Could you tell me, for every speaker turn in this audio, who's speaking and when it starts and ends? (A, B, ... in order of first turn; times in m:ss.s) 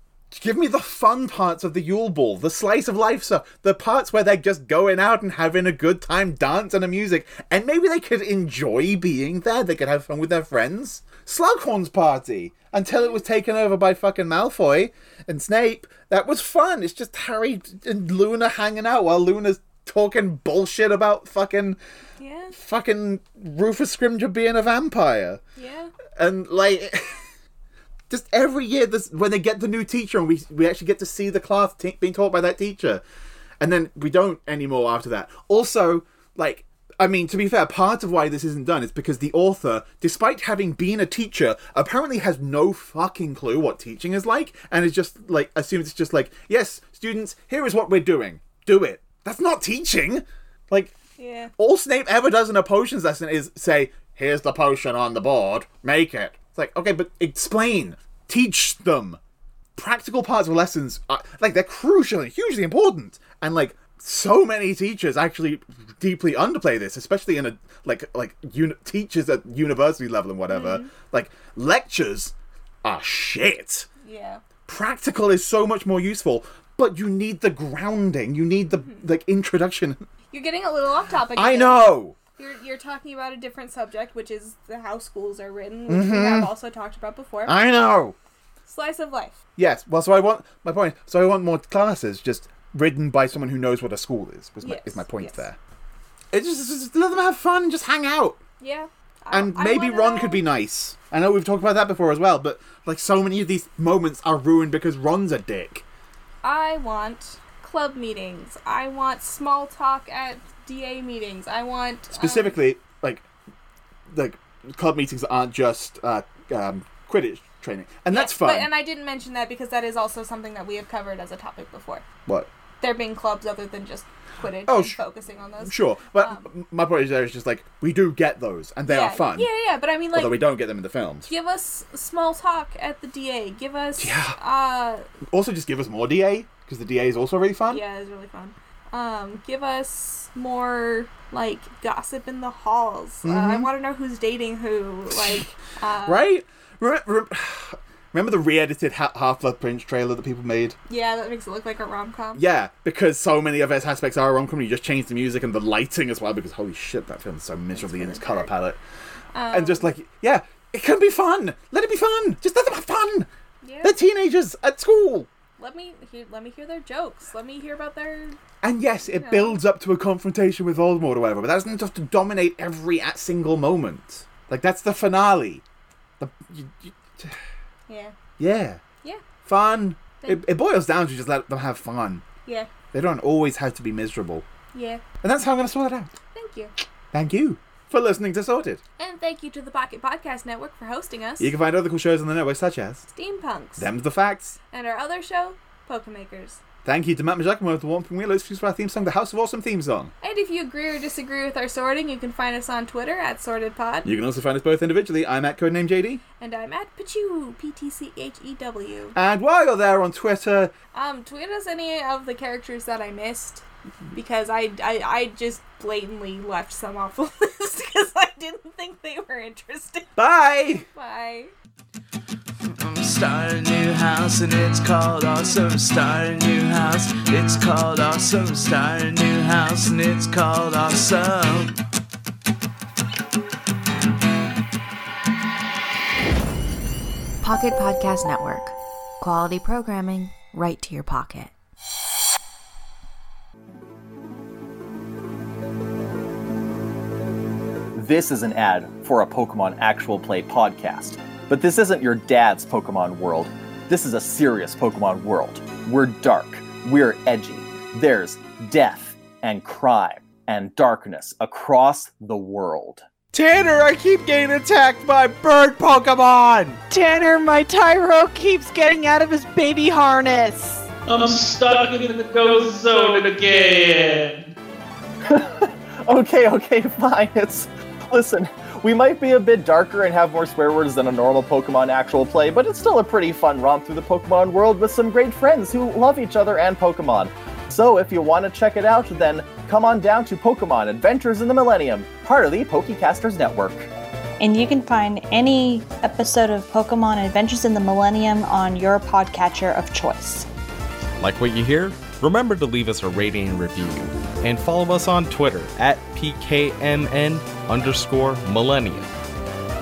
0:00.3-0:21.8 A
0:22.2-0:22.5 B
0:22.5-0:25.4 A
0:25.6-0:25.9 B
0:26.2-0:27.2 A
0:28.1-0:33.0 A
0:33.6-0:50.9 A
0:51.2-0:51.5 B
0:51.6-0:59.2 A
0:59.8-1:13.9 A
1:10.5-1:10.9 B
1:14.0-1:14.4 B
1:14.6-1:20.0 A
1:18.8-1:19.0 B
1:20.3-1:27.6 B
1:21.3-1:22.2 A
1:25.9-1:26.5 A
1:27.4-1:28.1 A
1:28.6-1:29.4 B
1:29.6-1:35.6 A
1:34.6-1:35.4 B
1:36.3-1:38.4 A
1:38.6-1:40.4 B
1:39.3-1:45.8 A
1:46.4-1:52.6 B
1:52.1-1:53.3 A
1:54.1-1:58.7 A
1:58.1-2:02.0 B
2:02.8-2:06.5 B
2:04.6-2:05.0 A
2:05.6-2:09.5 A
2:08.8-2:10.4 B
2:10.1-2:11.3 A
2:11.3-2:15.1 B
2:14.0-2:14.4 A
2:15.3-2:17.8 A
2:17.7-2:26.3 B
2:23.2-2:23.7 A
2:26.0-2:30.8 A
2:30.9-2:32.4 B
2:32.4-2:38.8 A
2:37.7-2:38.5 B
2:39.3-2:39.9 B
2:39.5-2:43.3 A
2:43.6-2:44.0 B
2:43.8-2:45.3 A
2:45.6-2:48.4 B
2:48.6-2:55.6 A
2:49.0-2:49.6 B
2:56.2-2:57.4 A
2:57.9-2:58.1 B
2:58.4-2:58.8 A
2:59.4-3:02.2 A
3:02.9-3:04.4 A
3:04.7-3:05.0 B
3:05.2-3:06.1 A
3:06.3-3:06.7 B
3:07.1-3:08.8 A
3:09.0-3:11.5 B
3:11.4-3:13.0 A
3:13.1-3:13.9 B
3:13.8-3:14.6 A
3:14.7-3:16.6 B
3:16.8-3:20.1 A
3:20.2-3:24.1 B
3:24.0-3:26.2 A
3:26.4-3:29.2 B
3:29.1-3:30.7 A
3:30.9-3:40.1 B
3:40.2-3:40.8 A
3:40.9-3:41.5 B
3:42.6-3:51.8 C
3:57.4-4:01.5 D
4:07.9-4:23.0 E
4:23.3-4:26.8 A
4:26.9-4:30.9 F
4:31.1-4:34.5 G
4:35.2-4:53.9 E
4:54.4-5:00.5 H
5:01.2-5:09.1 I